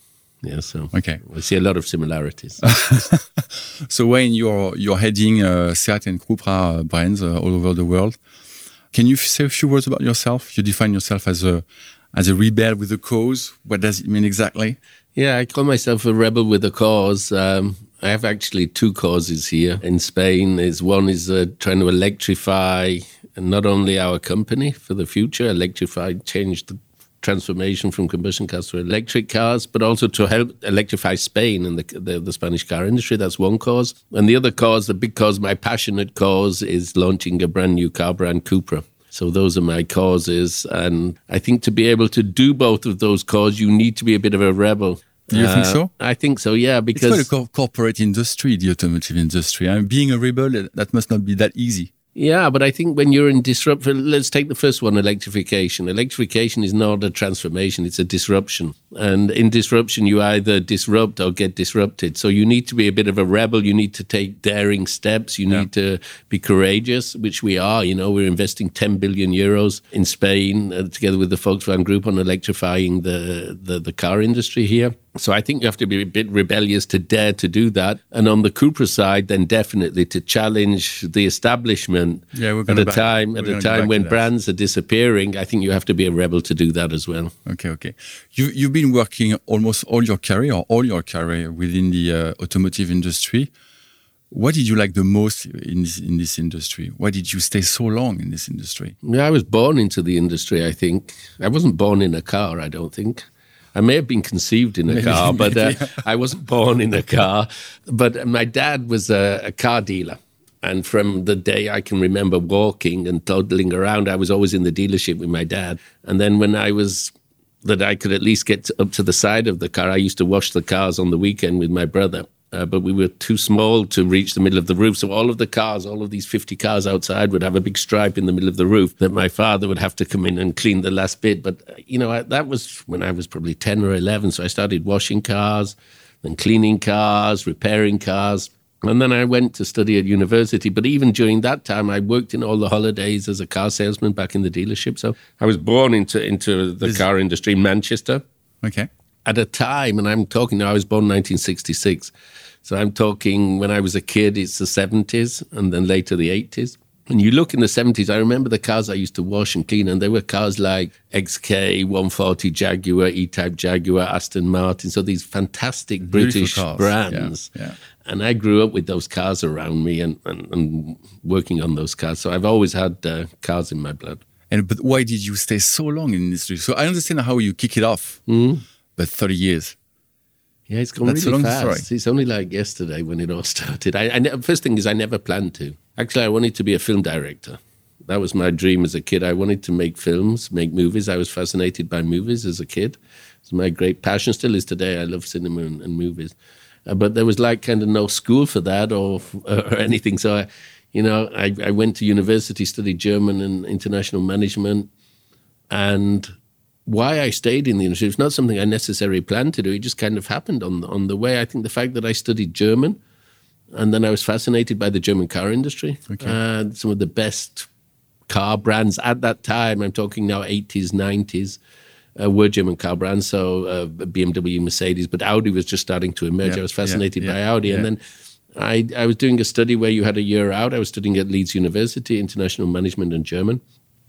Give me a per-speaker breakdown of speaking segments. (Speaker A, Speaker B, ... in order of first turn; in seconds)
Speaker A: 0.4-2.7, 15.2-47.3, 52.1-87.3, 99.0-148.2, 149.2-152.1, 152.6-167.5, 168.0-174.2, 178.3-178.6, 180.7-196.3, 196.9-204.9, 205.7-206.3, 206.8-213.0, 213.7-217.7, 218.3-221.6, 222.2-228.0, 228.5-233.6
Speaker B: 0.9-1.2, 2.6-8.2, 8.9-14.8, 45.3-45.9, 46.9-51.9, 82.3-84.2, 87.5-93.5, 94.3-98.9, 104.9-106.0, 148.6-148.9, 166.1-167.8, 174.5-178.2, 178.9-179.8, 181.0-181.8, 226.4-227.9